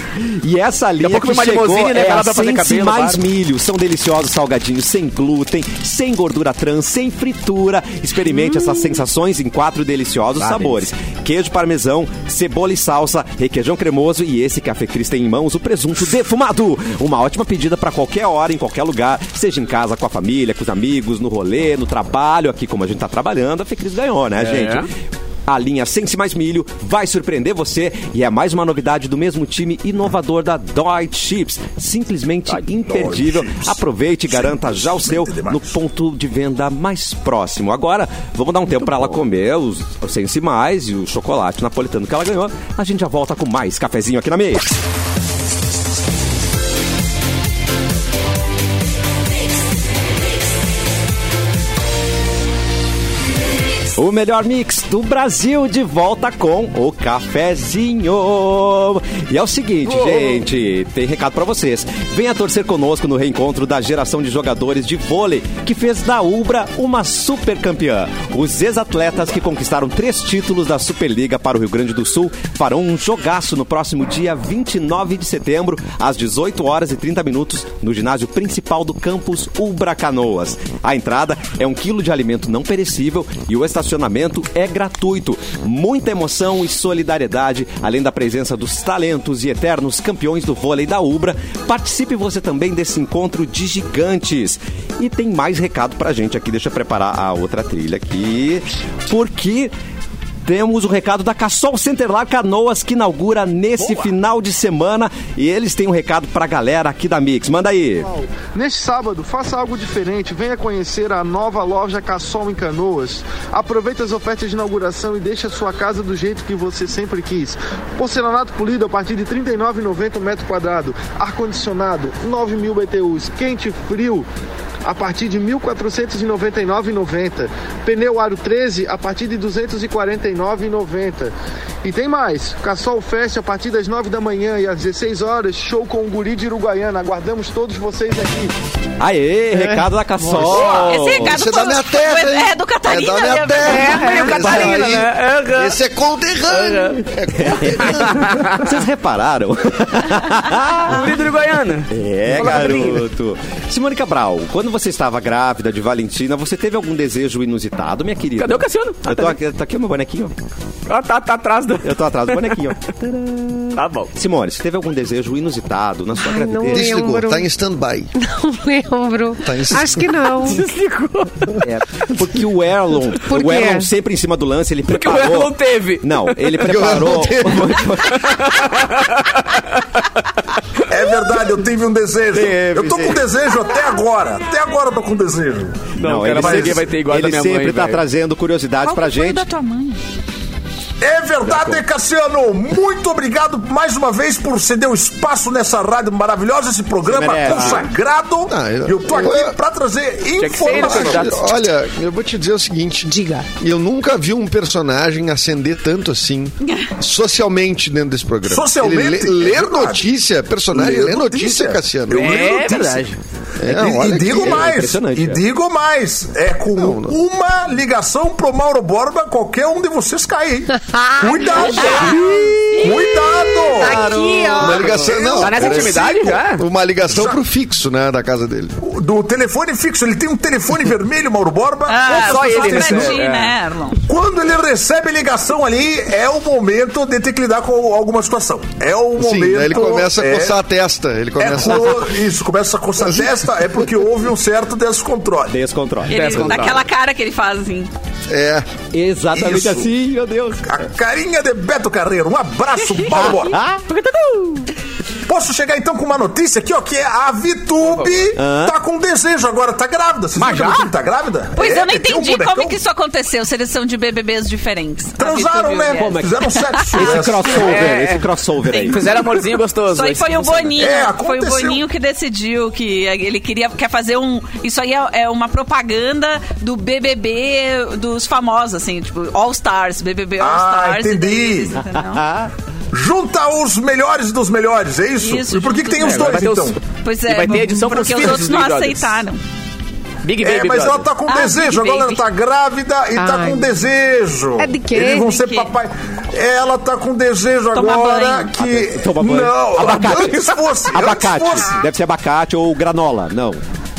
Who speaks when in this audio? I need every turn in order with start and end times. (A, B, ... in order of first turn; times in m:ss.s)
0:00.2-0:24.9 A
0:01.0-0:03.2 B
0:10.4-0:10.9 B
0:24.4-0:24.9 B
0:25.5-0:44.7 A
0:32.8-0:35.8 C
0:38.8-0:39.2 B
0:54.0-1:39.7 A
0:59.8-1:00.4 B
1:40.4-1:48.1 A
1:48.1-2:04.2 D
2:04.8-2:11.3 D
2:11.8-2:18.5 D
2:19.0-2:21.4 A
2:19.5-2:19.8 E
2:20.4-2:21.0 B
2:20.6-2:24.2 F
2:21.2-2:28.4 G
2:23.6-2:25.8 B
2:23.7-2:24.6 E
2:26.5-2:27.0 B
2:27.4-2:31.2 A
2:27.9-2:28.7 B
2:30.8-2:33.1 B
2:31.9-2:40.3 A
2:38.4-2:39.4 B
2:40.9-2:42.6 B
2:41.8-2:46.9 A
2:43.7-2:44.1 B
2:46.2-2:47.5 E
2:46.7-2:48.1 G
2:48.2-2:50.6 E
2:49.4-2:50.3 G
2:50.4-2:51.6 B
2:51.6-2:58.6 A
2:53.3-2:53.9 E
2:54.9-2:56.7 B
2:56.6-2:58.0 G
2:58.1-2:59.8 B
3:00.9-3:06.9 C
3:02.3-3:03.2 A
3:06.0-3:08.0 B
3:06.0-3:09.4 A
3:08.8-3:10.0 F
3:11.0-3:21.4 C
3:11.4-3:11.8 B
3:17.1-3:17.9 A
3:17.2-3:17.8 B
3:18.5-3:19.6 G
3:20.4-3:21.6 B
3:20.7-3:32.4 G
3:23.0-3:23.5 E
3:26.6-3:26.9 F
3:28.4-3:30.0 C
3:30.7-3:33.1 C
3:32.1-3:33.2 B
3:33.6-3:34.7 G
3:33.7-3:44.1 C
3:34.3-3:35.4 A
3:36.8-3:37.2 G
3:40.9-3:41.9 E
3:41.7-3:42.5 B
3:41.7-3:42.2 F
3:42.7-3:43.2 F
3:43.8-3:44.9 E
3:44.3-3:48.8 G
3:44.6-3:46.6 B
3:44.7-3:46.0 C
3:47.1-3:47.4 C
3:48.8-3:53.2 C
3:51.9-3:54.0 F
3:52.0-3:53.5 B
3:54.1-4:00.6 C
3:59.2-4:02.1 G
4:01.4-4:05.6 C
4:05.5-4:06.7 A
4:06.1-4:06.8 B
4:06.1-4:07.9 F
4:08.3-4:08.7 G
4:08.9-4:10.6 A
4:09.3-4:09.9 C
4:10.6-4:13.6 C
4:13.1-4:13.8 A
4:13.9-4:14.7 B
4:15.3-4:22.8 C
4:17.8-4:18.2 B
4:18.4-4:18.8 A
4:20.4-4:20.9 B
4:21.6-4:27.0 F
4:25.2-4:27.7 C
4:25.9-4:29.1 A
4:27.4-4:30.9 B
4:28.7-4:29.2 F
4:29.9-4:42.2 F
4:30.8-4:31.8 C
4:40.4-4:41.8 C
4:42.0-4:42.5 A
4:42.9-4:46.8 C
4:45.2-4:46.3 F
4:46.0-4:49.2 B
4:47.0-4:49.4 F
4:50.2-4:51.1 B
4:50.4-5:01.8 C
4:51.3-4:52.2 F
4:53.1-4:53.7 E
4:54.6-4:55.4 E
4:55.3-4:55.7 F
4:57.7-4:58.6 F
4:58.6-5:03.6 A